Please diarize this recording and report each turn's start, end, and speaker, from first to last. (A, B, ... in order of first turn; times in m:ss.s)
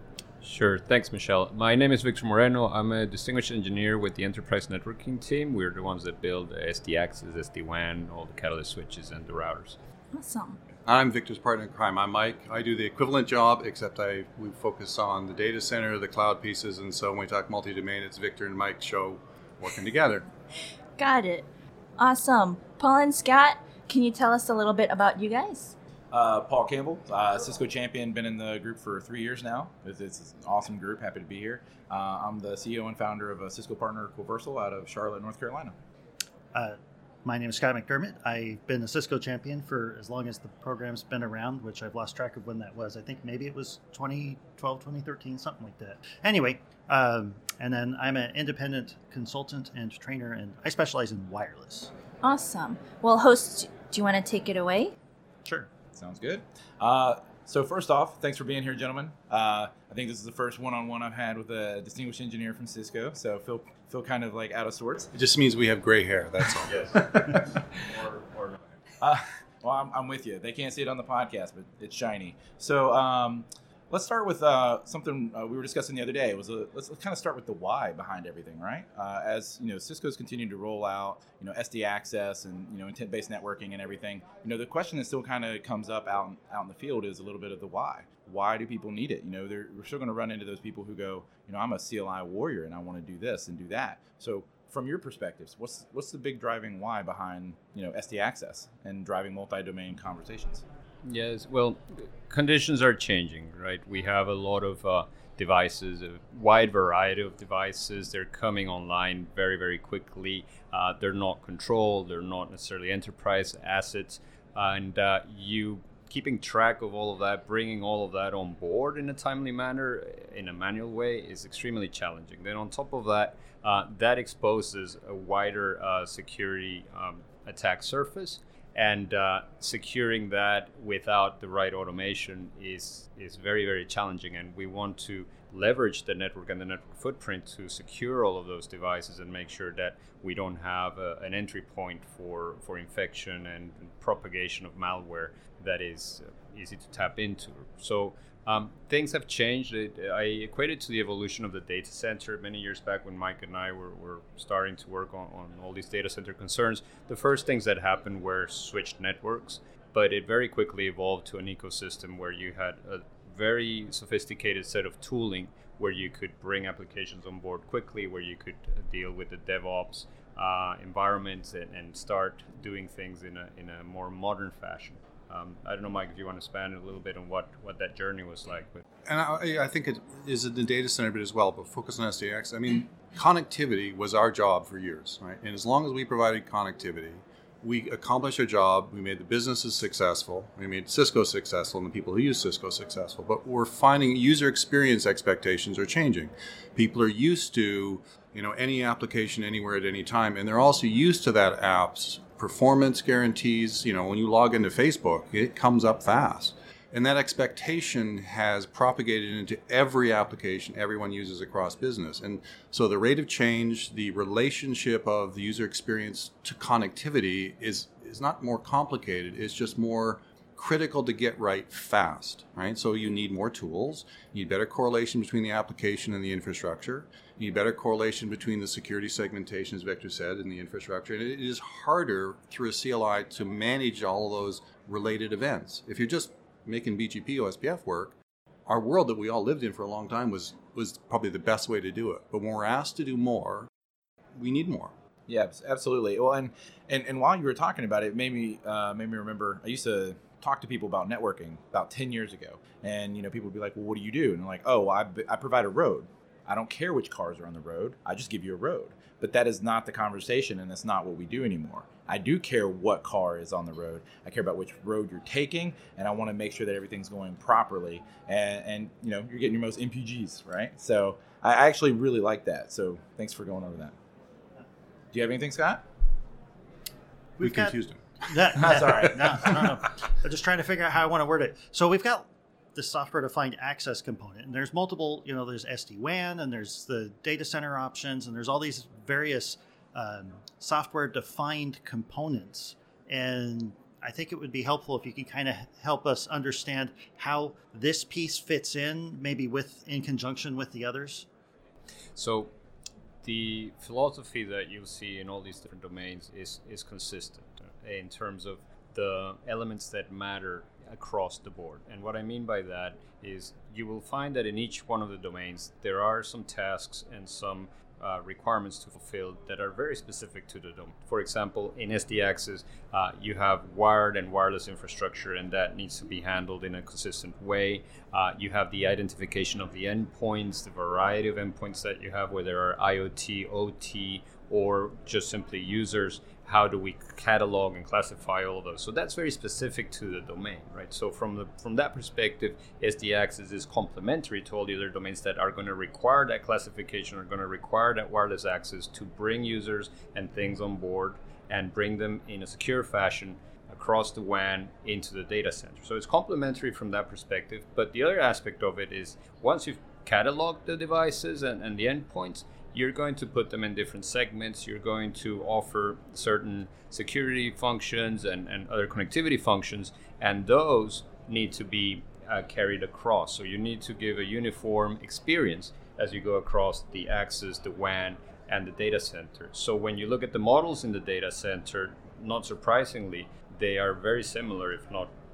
0:00.4-0:09.8 A
0:10.1-0:10.6 B
0:10.8-0:20.3 C
0:21.0-0:21.5 B
0:22.0-0:25.7 B
0:26.1-0:35.8 D
0:36.5-0:51.9 E
0:52.2-0:54.9 B
0:55.9-1:05.1 D
1:05.1-1:07.6 C
1:06.7-1:07.0 A
1:08.1-1:08.6 A
1:09.0-1:40.6 D
1:41.0-2:58.8 A
2:59.1-3:58.2 C
3:58.7-4:03.7 C
4:04.4-4:04.9 C
4:05.3-4:33.9 D
4:35.1-4:35.8 D
4:37.4-5:01.3 E
4:37.4-4:39.7 C
4:38.6-4:39.2 D
5:02.2-5:02.5 A
5:03.2-6:25.1 A